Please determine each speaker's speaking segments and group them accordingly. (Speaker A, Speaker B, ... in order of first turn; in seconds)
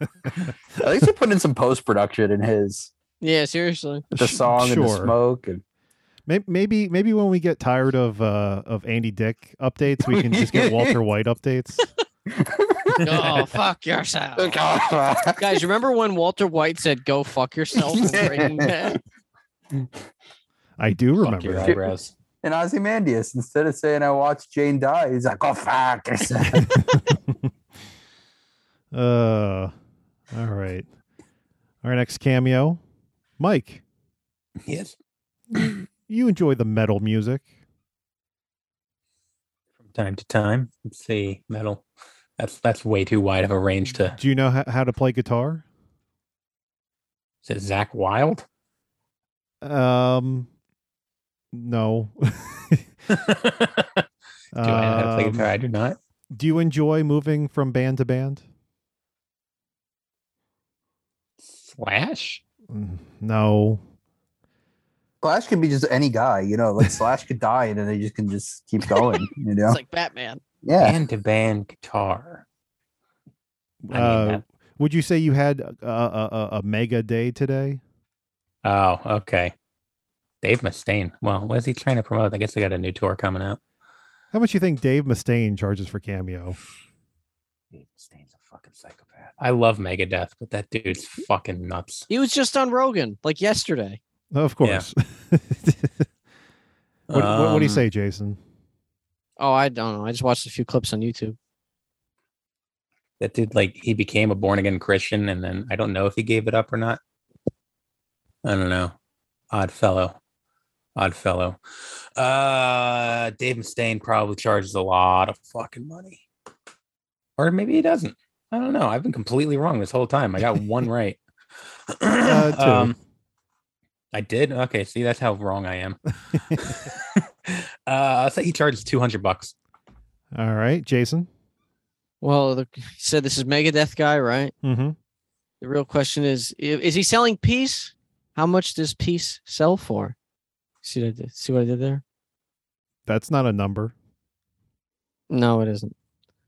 Speaker A: 0.8-2.9, 4.2-5.6, 10.0-11.0, 12.3-13.1, 14.4-15.6, 17.7-19.0, 22.4-26.7, 65.2-69.8, 70.6-71.0
Speaker B: 3.2-4.0, 13.0-14.6, 15.4-19.0, 69.7-70.4, 92.1-94.0, 99.4-101.4, 132.2-134.5, 135.6-140.1, 140.8-142.0, 145.3-145.9
Speaker C: 4.1-5.1, 6.3-11.8, 20.8-21.8, 26.7-27.1, 28.9-29.7, 30.3-30.9, 31.8-32.8, 33.4-33.8, 35.5-37.5, 44.1-45.6, 49.6-50.5, 51.5-52.8, 54.5-55.5, 56.3-58.4, 62.7-63.8, 73.8-77.8, 84.3-86.6, 94.3-95.9, 97.1-98.4, 122.2-122.9, 130.3-131.3, 134.6-134.9, 143.1-143.9
Speaker D: 21.2-22.1, 34.6-34.9, 39.9-41.8, 42.4-44.2, 47.4-48.4, 53.1-54.0, 54.6-56.0, 61.4-62.4, 70.8-72.4, 73.9-74.4, 78.6-79.5, 80.4-83.6, 87.8-92.1, 97.1-97.8, 103.2-107.0, 108.4-108.9, 109.5-110.2, 111.0-111.6, 112.2-116.2, 117.4-121.2, 121.9-123.0, 124.1-126.0, 126.6-129.5